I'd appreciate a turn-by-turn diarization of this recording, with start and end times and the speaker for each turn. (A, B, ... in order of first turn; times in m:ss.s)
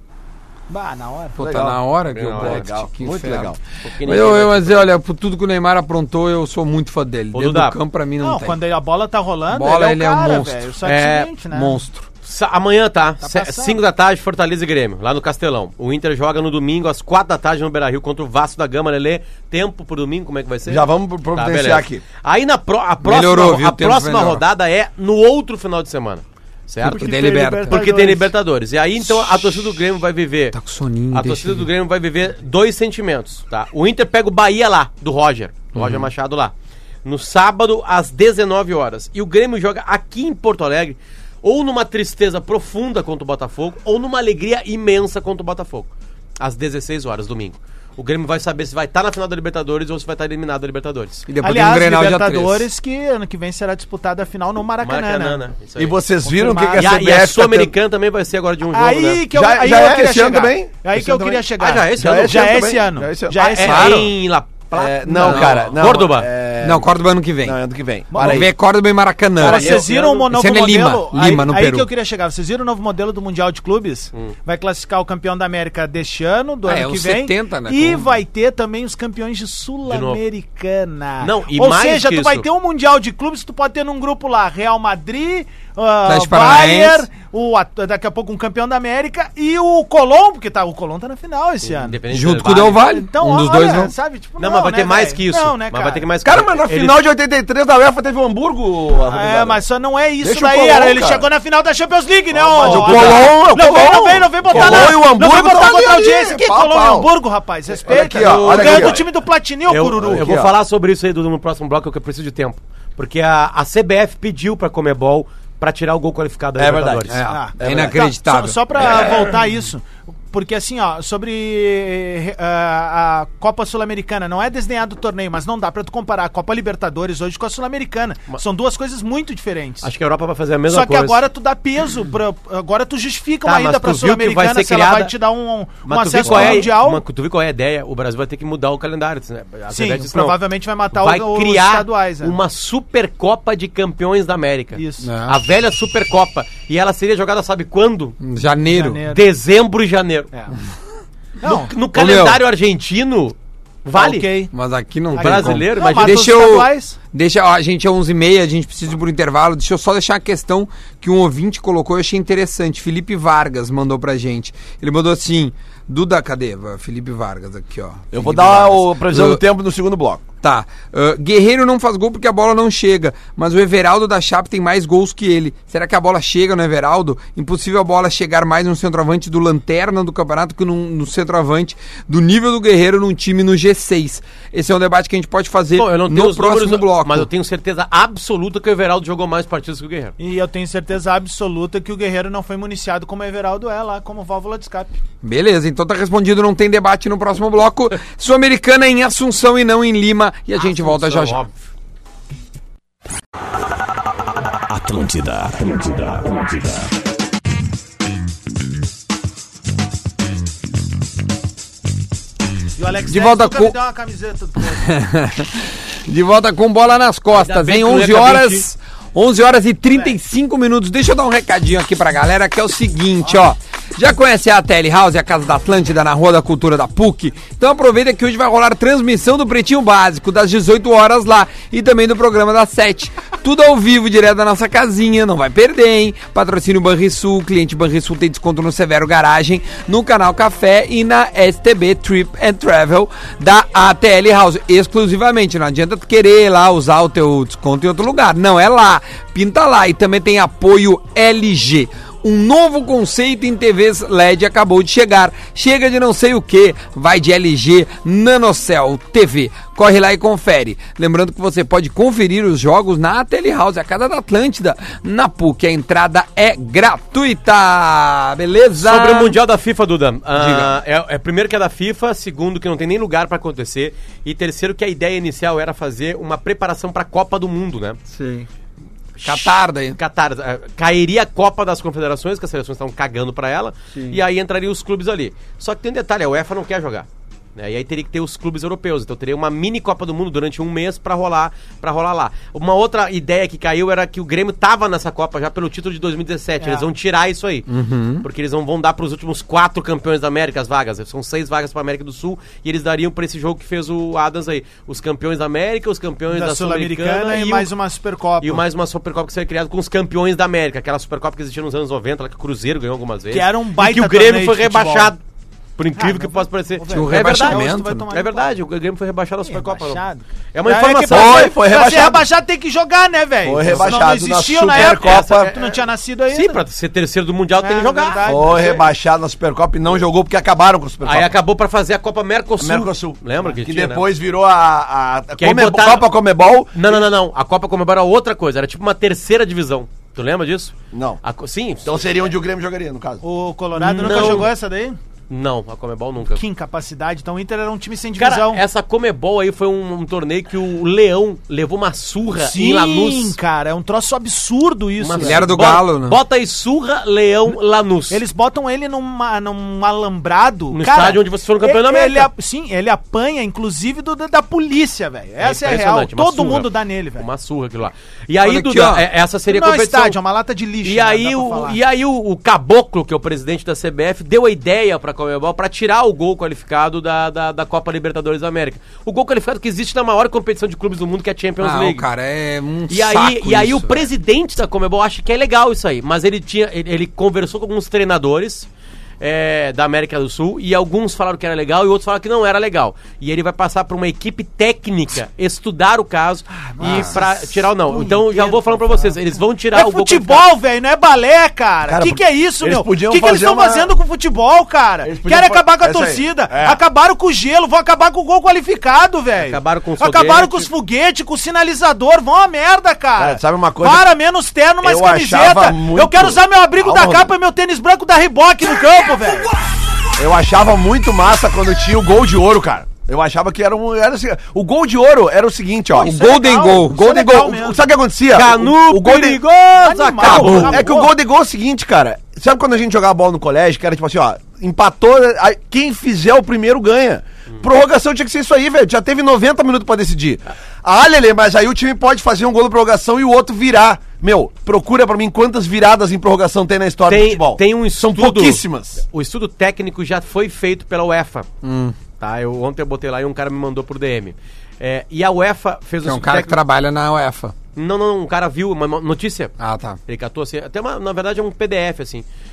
0:00.7-0:01.4 A
0:01.4-0:08.6 B
0:01.4-0:03.6 C
0:02.1-0:02.6 D
0:03.8-0:04.9 D
0:07.3-0:07.8 D
0:08.2-0:11.8 A
0:09.5-0:10.7 B
0:10.8-0:11.3 D
0:11.5-0:12.1 B
0:12.2-0:30.6 D
0:13.2-0:13.8 A
0:20.6-0:22.0 C
0:23.0-0:24.4 B
0:26.8-0:27.8 B
0:26.8-0:28.3 A
0:29.1-0:29.5 B
0:30.5-0:31.7 B
0:31.1-0:36.5 D
0:35.7-0:36.1 B
0:37.0-0:51.2 D
0:51.3-0:52.7 B
0:51.4-0:55.4 A
0:54.8-0:56.0 D
0:55.8-0:57.7 C
0:56.2-0:56.9 A
0:56.7-0:59.2 D
0:58.7-1:04.1 A
0:59.3-1:03.7 C
1:01.6-1:02.5 D
1:03.4-1:06.3 D
1:03.6-1:04.1 B
1:04.7-1:06.9 C
1:05.2-1:05.7 B
1:06.6-1:07.6 B
1:07.4-1:08.5 C
1:08.1-1:08.5 A
1:08.1-1:11.9 B
1:09.4-1:32.0 A
1:09.4-1:10.2 D
1:16.6-1:18.1 B
1:19.9-1:20.2 D
1:21.2-1:22.4 D
1:26.0-1:27.1 B
1:31.6-1:32.8 D
1:32.1-1:33.9 B
1:32.5-1:36.0 A
1:34.4-1:37.0 D
1:36.2-1:39.6 C
1:39.1-1:50.3 A
1:40.2-1:41.2 C
1:42.3-1:47.1 C
1:42.6-1:43.3 D
1:44.5-1:45.0 D
1:47.7-1:49.0 C
1:47.9-1:49.0 D
1:49.7-1:57.2 D
1:50.0-1:50.5 C
1:56.6-1:58.0 C
1:57.1-1:58.6 B
1:57.3-2:09.9 A
1:58.8-1:59.3 C
2:09.8-2:11.2 D
2:10.7-2:17.0 A
2:13.4-2:15.1 D
2:15.8-2:20.4 D
2:19.7-2:22.4 A
2:20.9-2:28.2 D
2:24.7-2:25.1 A
2:25.0-2:25.4 B
2:28.2-2:29.0 B
2:28.6-2:29.2 A
2:29.1-2:30.3 D
2:31.4-2:31.7 A
2:31.4-2:34.3 D
2:31.9-2:32.4 B
2:33.9-2:34.5 A
2:34.5-2:49.4 B
2:35.1-2:36.3 D
2:35.1-2:37.0 A
2:48.1-2:50.2 C
2:50.4-3:07.3 B
3:05.8-3:10.1 D
3:10.2-3:14.9 A
3:15.2-3:21.4 B
3:20.6-3:21.6 D
3:24.7-3:26.9 E
3:32.8-3:34.9 A
3:33.1-3:33.8 B
3:34.8-4:29.4 B
3:37.3-3:38.6 D
4:28.8-4:38.0 D
4:30.4-4:30.7 B
4:38.1-4:38.5 B
4:39.2-4:57.7 D
4:39.2-4:40.0 B
4:43.9-4:44.2 B
4:56.6-4:56.8 A
4:57.7-4:58.2 B
4:58.2-5:07.7 D
5:06.3-5:08.6 A
5:08.4-5:15.2 D
5:13.3-5:15.1 A
5:15.8-5:20.0 D
5:16.0-5:18.5 A
5:16.9-5:18.0 B
5:19.4-5:26.6 A
5:20.5-5:21.6 D
5:21.1-5:22.2 C
5:23.4-5:25.5 C
5:23.6-5:23.9 D
5:24.7-5:25.8 D
5:26.3-5:28.8 D
5:27.6-5:28.8 A
5:28.2-5:31.3 C
5:31.0-5:34.0 D
5:32.6-5:37.0 C
5:35.4-5:36.1 D
5:36.7-5:42.2 D
5:40.9-5:41.2 C
5:41.8-5:43.2 C
5:43.2-5:45.0 A
5:43.8-5:44.5 D
5:45.3-5:46.4 D
5:46.3-5:48.6 A
5:48.2-5:53.4 D
5:52.4-5:55.5 A
5:55.0-5:58.2 D
5:55.2-5:56.2 B
5:58.1-6:07.2 A
6:00.7-6:02.3 D
6:05.4-6:10.2 D
6:08.4-6:09.0 B
6:09.5-6:11.8 A
6:10.8-6:22.0 D
6:21.6-6:24.1 B
6:22.9-6:28.7 D
6:29.2-6:40.5 D
6:36.5-6:39.1 A
6:39.7-6:59.5 A
6:41.9-6:43.9 C
6:45.0-6:46.8 C
6:49.4-6:50.7 D
6:53.2-6:54.0 C
6:54.8-6:57.3 C
7:00.2-7:06.2 C
7:05.9-7:07.8 A
7:06.0-7:07.1 B
7:06.8-7:09.4 C
7:08.3-7:10.9 D
7:09.7-7:11.1 A
7:10.2-7:29.0 C
7:27.1-7:31.5 D
7:31.6-7:32.0 B
7:32.2-7:36.6 D
7:36.0-7:37.5 B
7:37.8-7:39.5 D
7:39.6-7:40.0 B
7:40.1-7:42.2 D